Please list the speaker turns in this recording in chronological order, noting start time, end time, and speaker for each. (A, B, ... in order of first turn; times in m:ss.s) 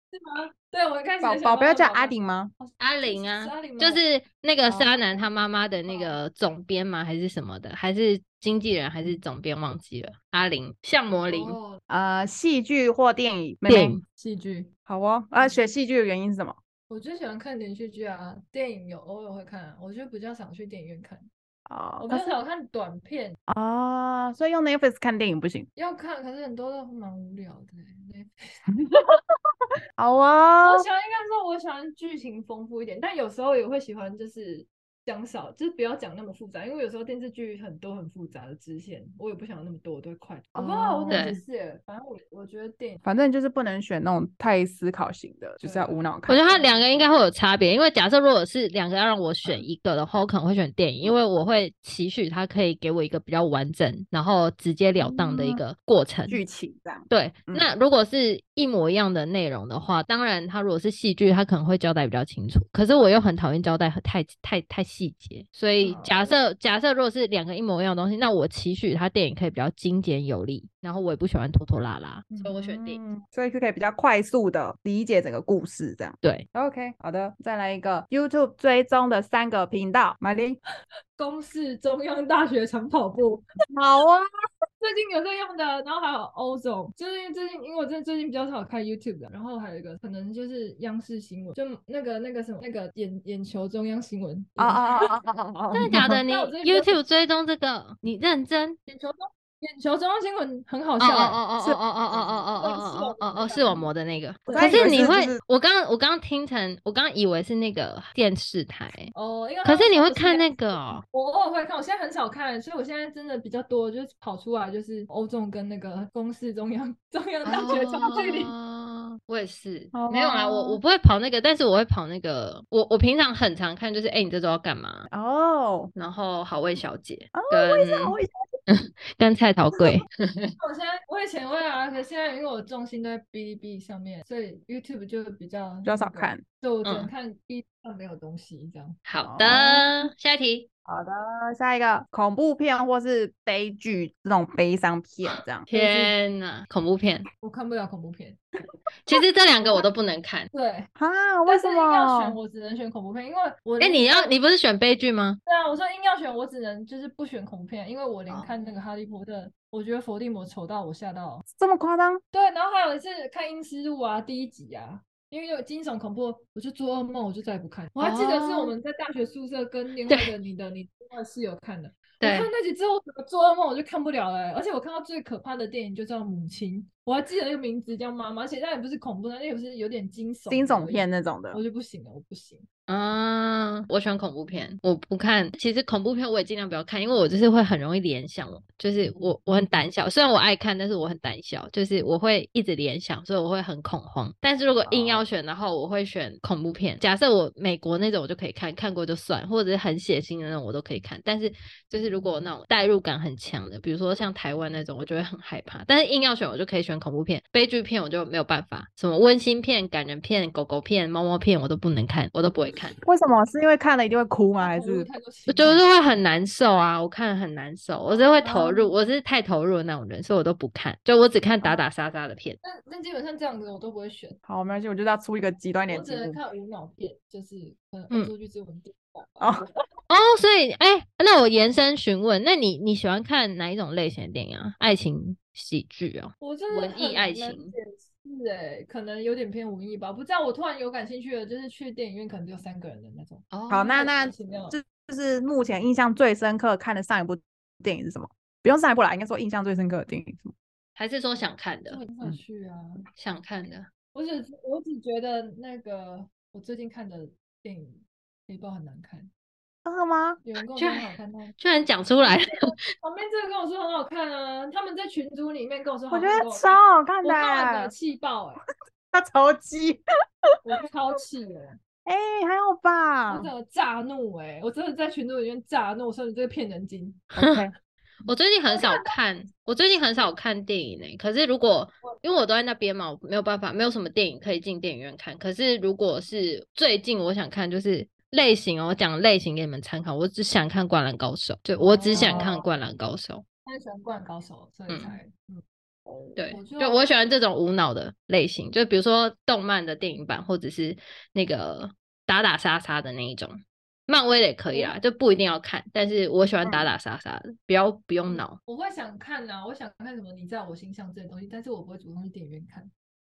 0:00.1-0:04.0 A
0:01.2-0:02.5 B
0:02.8-0:11.6 C
0:05.8-0:06.2 A
0:11.3-0:11.8 A
0:11.9-0:14.0 B
0:13.7-0:14.0 C
0:14.1-0:14.7 A
0:14.9-0:16.6 B
0:15.4-0:15.6 A
0:16.9-0:21.3 A
0:21.7-0:22.3 B
0:22.0-0:23.4 A
0:23.5-0:25.7 B
0:25.8-0:29.0 A
0:30.0-0:30.9 B
0:30.6-0:43.0 A
0:40.5-0:41.4 B
0:41.1-0:41.4 C
0:43.0-0:46.5 B
0:45.6-0:47.1 A
0:46.3-0:56.4 C
0:55.0-0:55.6 B
0:56.3-0:57.7 B
0:57.1-1:13.0 C
1:05.8-1:06.3 A
1:12.3-1:20.6 B
1:21.2-1:23.4 A
1:23.7-1:24.2 B
1:24.8-1:35.1 A
1:34.6-1:36.2 B
1:35.7-1:38.8 C
1:35.9-1:37.0 A
1:38.9-1:41.4 A
1:41.0-1:49.1 C
1:41.6-1:42.4 B
1:42.5-1:43.9 A
1:44.4-1:45.0 A
1:44.5-1:45.4 B
1:49.1-1:50.5 A
1:49.6-1:51.0 C
1:51.1-1:58.5 A
1:57.4-2:05.1 C
1:59.9-2:00.8 B
2:05.1-2:05.9 B
2:05.9-2:08.2 C
2:07.3-2:08.3 B
2:08.7-2:10.5 C
2:10.6-2:19.0 A
2:15.8-2:16.4 B
2:16.8-2:17.1 C
2:19.0-2:20.7 C
2:19.2-2:19.8 B
2:20.9-2:25.7 B
2:25.7-2:26.1 A
2:25.7-2:27.3 C
2:27.4-2:28.4 A
2:29.0-2:30.5 C
2:30.5-2:30.9 A
2:31.0-2:32.4 B
2:31.5-2:34.3 A
2:33.8-2:35.4 C
2:35.5-2:41.4 A
2:41.5-2:42.2 B
2:42.3-3:02.6 A
2:48.0-2:48.8 C
2:50.1-2:50.3 C
2:52.2-2:52.5 C
3:00.5-3:01.6 B
3:02.9-3:33.0 C
3:14.8-3:15.3 B
3:33.0-3:35.1 B
3:34.6-3:35.9 A
3:35.5-3:42.6 C
3:38.1-3:38.5 A
3:38.4-3:38.9 B
3:42.6-3:44.4 A
3:44.5-3:46.4 B
3:45.9-3:49.6 A
3:50.1-3:57.7 C
3:56.4-4:04.8 A
4:03.5-4:04.0 C
4:03.7-4:10.5 B
4:11.0-4:12.0 C
4:11.9-4:13.0 A
4:13.2-4:13.9 C
4:14.1-4:19.3 A
4:19.8-4:20.4 B
4:20.4-4:21.5 A
4:20.8-4:22.6 C
4:23.0-4:28.6 A
4:26.1-4:27.9 B
4:29.1-4:30.0 B
4:30.6-4:31.8 A
4:32.0-4:33.5 B
4:33.3-4:37.3 A
4:37.4-4:37.7 B
4:37.4-4:37.6 C
4:38.2-4:53.4 C
4:38.7-4:39.0 A
4:51.8-4:52.6 A
4:52.1-4:52.6 B
4:53.6-4:55.6 A
4:54.9-4:55.2 C
4:56.2-4:57.0 A
4:56.4-5:08.6 C
5:04.7-5:05.0 A
5:08.2-5:12.9 A